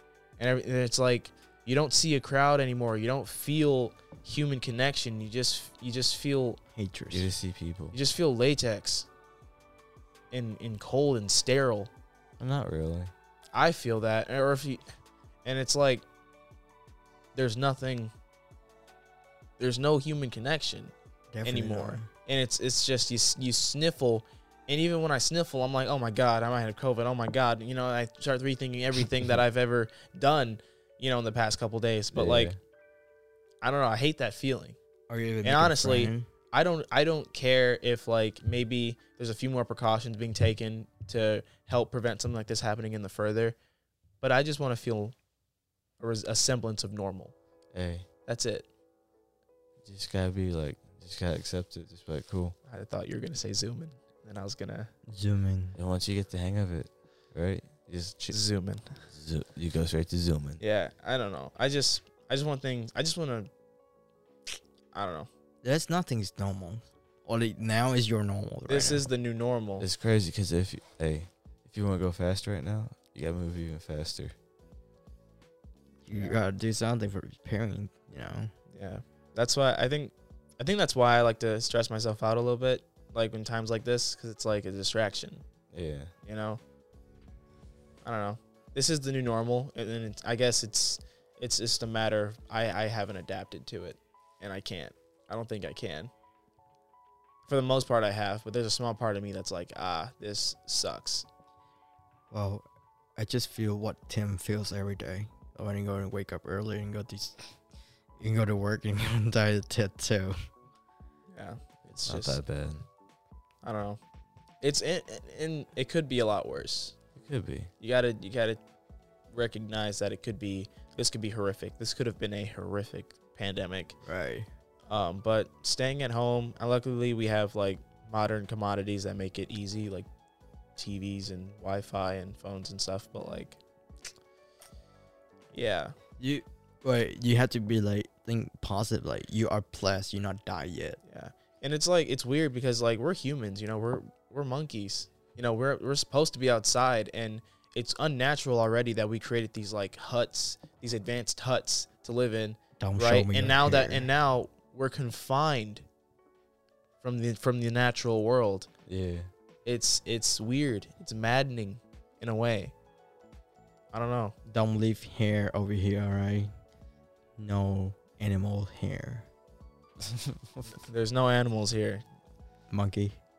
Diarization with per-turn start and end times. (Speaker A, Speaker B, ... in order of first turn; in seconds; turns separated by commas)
Speaker A: 0.4-6.6, Speaker B: 6.8-7.3, Speaker C: 7.1-8.0, Speaker A: 7.9-9.1, Speaker A: 10.3-11.9, Speaker C: 12.4-13.1, Speaker A: 13.5-14.8, Speaker A: 15.4-16.1, Speaker A: 17.4-18.1, Speaker A: 19.6-20.9, Speaker B: 21.3-22.1, Speaker A: 21.4-32.5, Speaker C: 32.1-32.5, Speaker A: 33.6-34.8, Speaker B: 35.1-36.3, Speaker A: 35.4-43.6, Speaker A: 44.2-45.1, Speaker A: 46.0-47.4, Speaker C: 47.7-48.1, Speaker A: 48.3-48.7, Speaker C: 49.9-52.5, Speaker A: 52.7-54.9, Speaker B: 55.1-55.8, Speaker C: 55.8-58.4, Speaker A: 58.3-59.0, Speaker C: 59.1-60.6, Speaker A: 60.6-63.5, Speaker A: 64.9-65.3, Speaker B: 65.6-69.0, Speaker A: 68.7-69.9, Speaker C: 69.8-74.3, Speaker B: 76.1-78.5, Speaker A: 76.1-76.4, Speaker A: 78.7-85.4, Speaker C: 85.7-86.1, Speaker A: 86.2-86.6, Speaker A: 88.0-96.1, Speaker A: 97.5-101.3, Speaker B: 102.3-102.7, Speaker B: 103.2-107.4, Speaker B: 108.2-110.3, Speaker A: 111.3-112.4, Speaker C: 112.1-112.9, Speaker A: 113.6-114.0, Speaker A: 114.6-117.0, Speaker C: 117.2-117.7, Speaker A: 117.8-118.6, Speaker A: 119.3-124.0, Speaker B: 124.0-124.5, Speaker A: 124.9-130.1, Speaker A: 130.8-133.6, Speaker A: 135.5-135.9, Speaker B: 136.2-141.0, Speaker A: 141.1-155.8, Speaker B: 152.8-154.1, Speaker A: 157.0-158.7, Speaker C: 158.9-159.3, Speaker A: 159.7-162.7, Speaker A: 163.9-164.3, Speaker B: 164.5-166.5, Speaker B: 167.4-169.3, Speaker C: 170.1-170.7, Speaker A: 170.7-172.0, Speaker B: 172.7-173.2